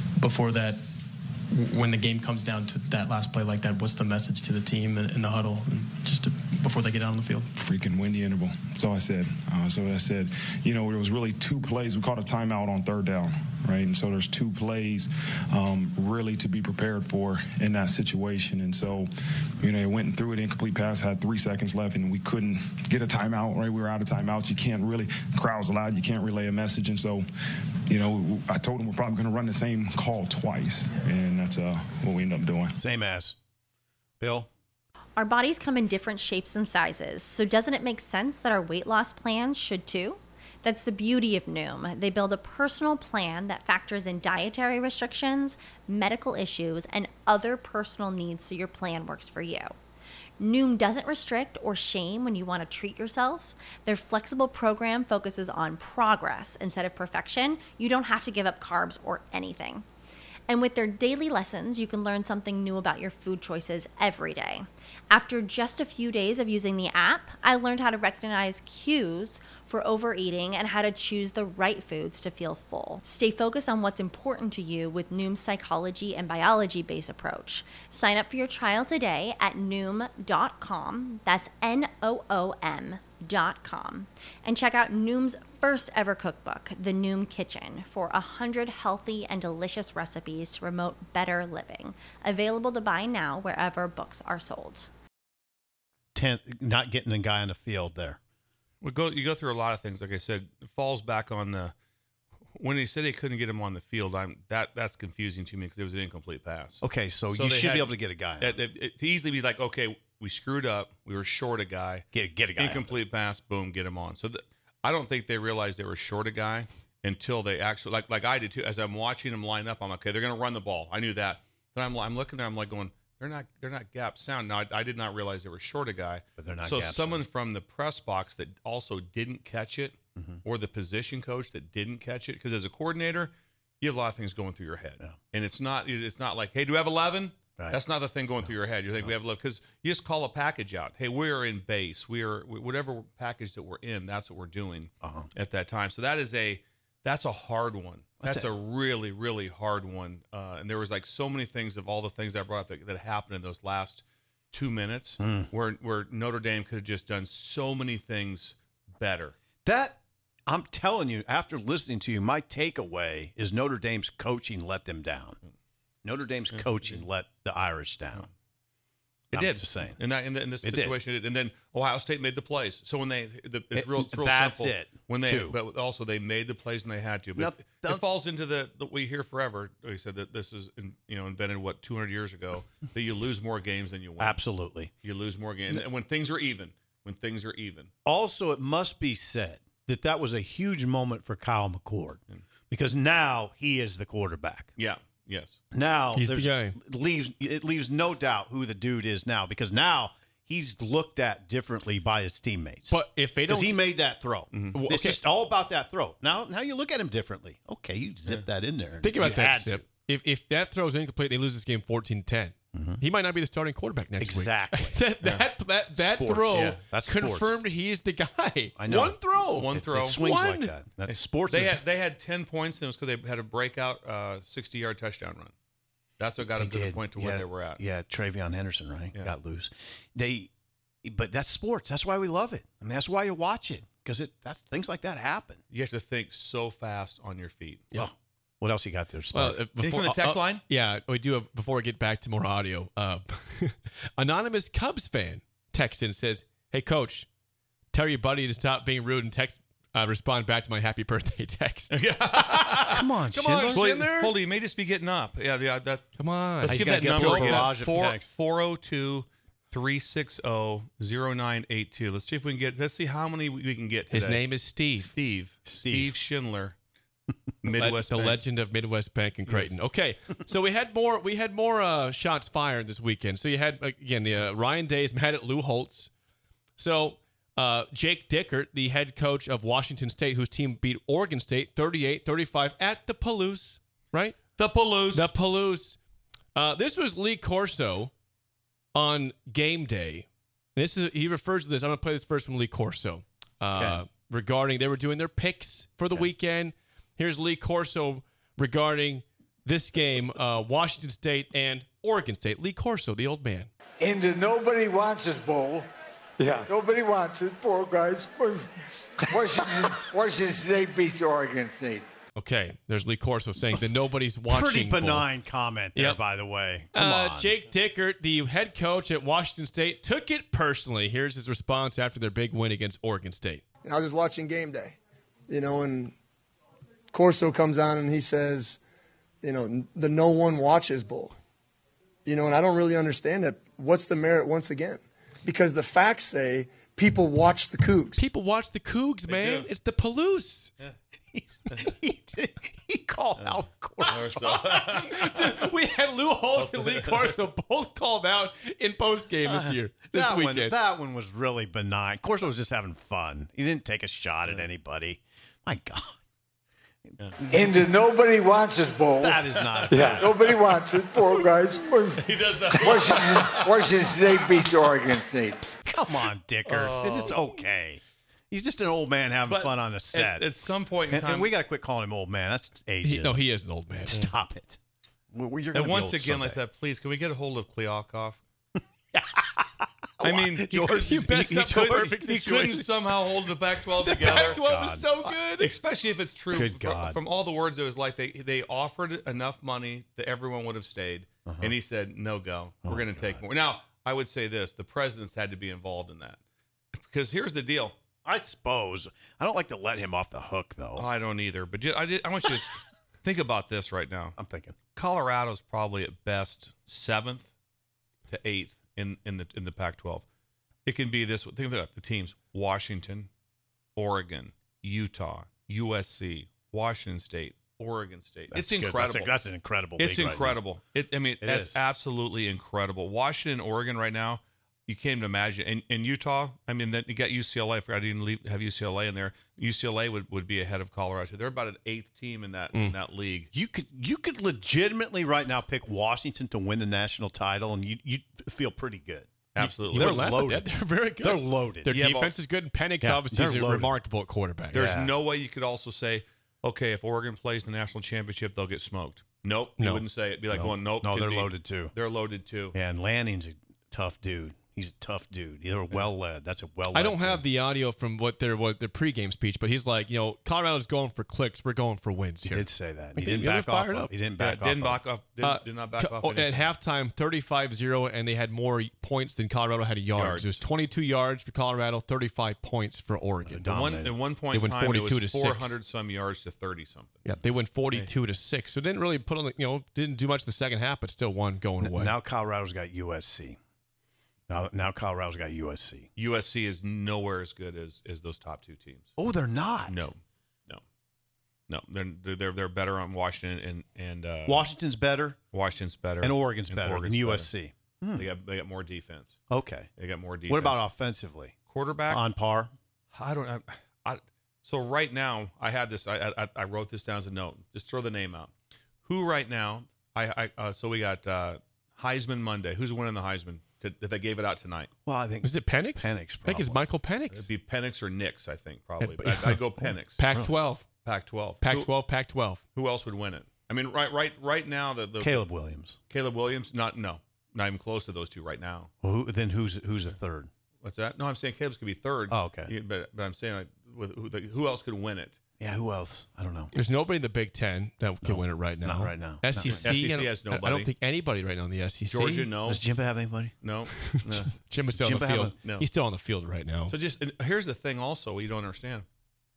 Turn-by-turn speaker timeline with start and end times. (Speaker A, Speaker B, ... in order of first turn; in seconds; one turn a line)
Speaker A: 0.2-0.8
Speaker A: 1.5-7.5
Speaker B: 7.6-27.2
Speaker B: 27.9-32.8
Speaker C: 32.7-33.4
Speaker C: 34.2-34.5
Speaker D: 35.2-49.7
Speaker D: 50.4-59.9
Speaker D: 60.5-94.9
Speaker C: 96.2-98.2
Speaker E: 98.8-101.7
Speaker E: 102.6-159.3
Speaker C: 106.8-108.6
Speaker C: 112.1-113.0
Speaker C: 126.4-127.2
Speaker C: 145.0-145.3
Speaker C: 148.2-148.5
Speaker C: 155.2-155.5
Speaker C: 159.7-165.4
Speaker C: 166.0-168.3
Speaker E: 166.5-167.0
Speaker E: 169.3-184.4
Speaker C: 169.3-170.0
Speaker C: 170.6-171.0
Speaker C: 173.7-175.6
Speaker C: 177.4-178.0
Speaker C: 184.2-184.9
Speaker E: 185.0-187.9
Speaker C: 188.1-194.7
Speaker E: 194.8-195.6
Speaker C: 195.7-209.9
Speaker F: 196.2-196.8
Speaker F: 202.9-203.7
Speaker E: 204.5-204.8
Speaker F: 204.8-205.2
Speaker F: 209.0-220.7
Speaker C: 212.7-213.0
Speaker C: 214.2-214.9
Speaker E: 216.0-216.7
Speaker C: 216.2-217.6
Speaker C: 218.8-221.8
Speaker E: 219.6-220.2
Speaker E: 221.1-225.5
Speaker E: 226.2-227.8
Speaker C: 226.6-230.5
Speaker C: 231.0-235.6
Speaker E: 235.7-237.8
Speaker C: 237.9-239.6
Speaker F: 239.3-247.3
Speaker E: 239.8-240.7
Speaker F: 247.9-252.0
Speaker E: 251.9-253.1
Speaker F: 252.7-254.4
Speaker C: 253.0-253.9
Speaker E: 253.7-256.1
Speaker F: 256.2-257.7
Speaker E: 256.6-266.8
Speaker C: 256.6-258.3
Speaker F: 264.1-265.1
Speaker C: 265.7-266.1
Speaker E: 267.6-268.4
Speaker F: 267.7-276.1
Speaker E: 269.5-269.8
Speaker F: 276.8-284.4
Speaker E: 284.6-285.3
Speaker F: 285.1-286.0
Speaker F: 286.6-288.1
Speaker F: 288.9-303.7
Speaker C: 293.8-294.0
Speaker G: 304.0-305.9
Speaker G: 306.6-308.7
Speaker G: 309.3-312.0
Speaker F: 312.4-315.2
Speaker C: 314.5-317.6
Speaker F: 315.9-316.2
Speaker F: 316.9-323.6
Speaker H: 323.9-324.9
Speaker H: 325.5-326.1
Speaker H: 327.1-328.8
Speaker H: 329.4-331.4
Speaker H: 332.3-338.2
Speaker F: 338.2-340.7
Speaker E: 339.3-339.7
Speaker C: 341.3-344.4
Speaker E: 344.1-345.6
Speaker F: 344.1-350.7
Speaker E: 346.6-347.4
Speaker C: 349.4-356.2
Speaker C: 357.4-357.9
Speaker G: 357.5-359.4
Speaker C: 359.1-360.4
Speaker E: 359.9-360.5
Speaker G: 360.1-365.6
Speaker E: 361.2-361.5
Speaker E: 362.1-364.4
Speaker C: 365.8-370.5
Speaker E: 366.7-367.4
Speaker E: 369.5-371.5
Speaker C: 371.1-373.4
Speaker F: 373.0-374.3
Speaker C: 374.1-374.8
Speaker C: 375.3-376.6
Speaker E: 375.7-378.4
Speaker C: 379.1-379.9
Speaker F: 380.2-383.2
Speaker E: 380.2-384.6
Speaker C: 380.7-381.8
Speaker F: 384.0-385.8
Speaker C: 384.2-385.3
Speaker E: 385.6-396.4
Speaker C: 386.5-387.2
Speaker C: 391.5-391.7
Speaker C: 392.9-393.4
Speaker E: 396.9-397.9
Speaker C: 398.2-401.1
Speaker E: 401.0-404.4
Speaker C: 404.4-404.8
Speaker E: 404.9-407.5
Speaker E: 408.3-410.2
Speaker E: 410.9-413.3
Speaker E: 414.0-419.3
Speaker C: 418.5-420.6
Speaker E: 420.0-433.5
Speaker C: 421.4-421.8
Speaker C: 433.5-440.7
Speaker E: 439.5-440.4
Speaker F: 439.9-444.8
Speaker C: 441.2-441.9
Speaker E: 441.9-442.3
Speaker C: 443.0-444.0
Speaker C: 444.7-445.1
Speaker E: 444.7-452.8
Speaker F: 449.8-450.0
Speaker C: 450.5-451.9
Speaker C: 452.7-457.4
Speaker F: 456.9-464.1
Speaker C: 462.5-465.0
Speaker E: 464.4-466.7
Speaker F: 465.4-473.6
Speaker E: 470.1-470.6
Speaker C: 473.4-474.2
Speaker E: 473.7-477.2
Speaker F: 474.5-475.8
Speaker F: 477.3-482.1
Speaker C: 481.8-483.6
Speaker C: 484.5-486.1
Speaker E: 486.2-489.1
Speaker C: 489.2-490.1
Speaker E: 489.9-490.8
Speaker E: 491.7-494.7
Speaker C: 494.5-495.4
Speaker E: 495.5-497.5
Speaker C: 496.2-498.3
Speaker E: 498.1-499.4
Speaker C: 499.5-499.9
Speaker E: 500.0-500.9
Speaker C: 500.5-501.6
Speaker E: 501.7-502.2
Speaker C: 502.1-502.7
Speaker E: 503.1-508.5
Speaker E: 509.1-514.9
Speaker C: 515.0-516.8
Speaker F: 515.4-517.5
Speaker E: 517.3-520.2
Speaker F: 519.0-520.9
Speaker E: 521.0-521.9
Speaker F: 521.6-522.6
Speaker E: 522.7-525.5
Speaker C: 525.2-526.0
Speaker E: 526.1-528.9
Speaker C: 529.0-530.5
Speaker E: 530.8-535.4
Speaker C: 532.3-532.7
Speaker C: 535.6-536.7
Speaker F: 536.8-542.5
Speaker C: 538.2-539.9
Speaker E: 539.6-540.9
Speaker E: 542.1-542.9
Speaker C: 542.6-543.5
Speaker E: 543.6-544.5
Speaker F: 543.9-546.9
Speaker C: 545.0-545.5
Speaker E: 545.6-545.9
Speaker E: 546.9-549.1